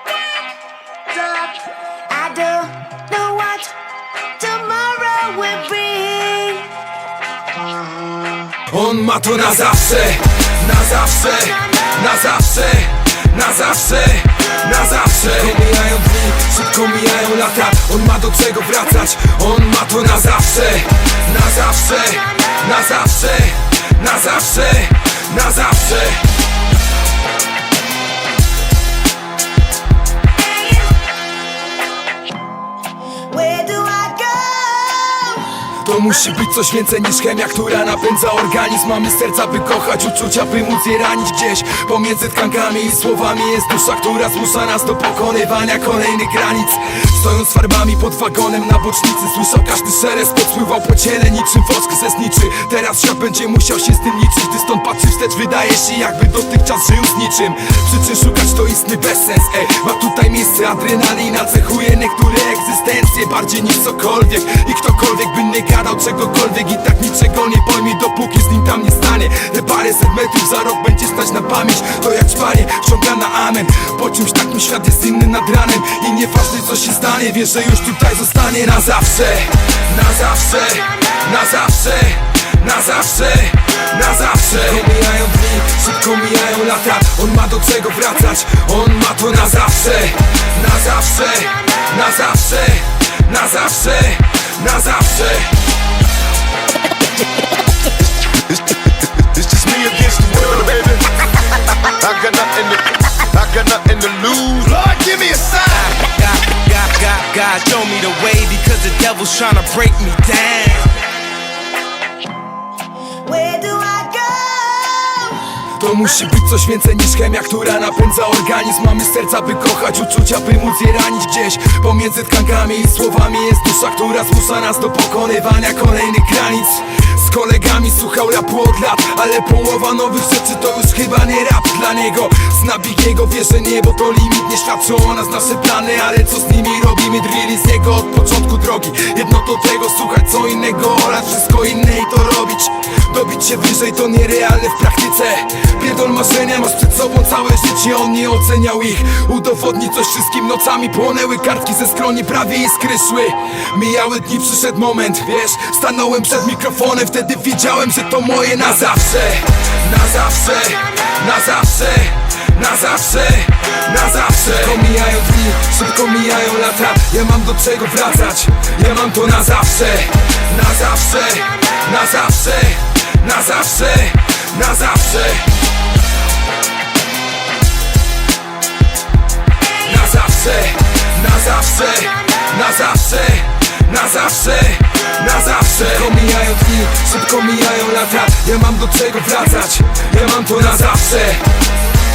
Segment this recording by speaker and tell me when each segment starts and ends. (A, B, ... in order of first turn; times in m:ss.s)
0:00.1-0:00.4 A
0:01.1-0:06.8 A
0:07.9-0:08.2 A
0:08.6-0:26.3 B
0:30.4-0:31.1 A
0:33.3-0:35.6 A
0:35.8-1:35.6 B
1:39.1-1:41.2 C
1:41.8-1:45.8 C
1:45.7-1:51.0 D
1:53.2-1:55.5 A
1:55.8-2:55.6 B
2:59.7-3:11.6 B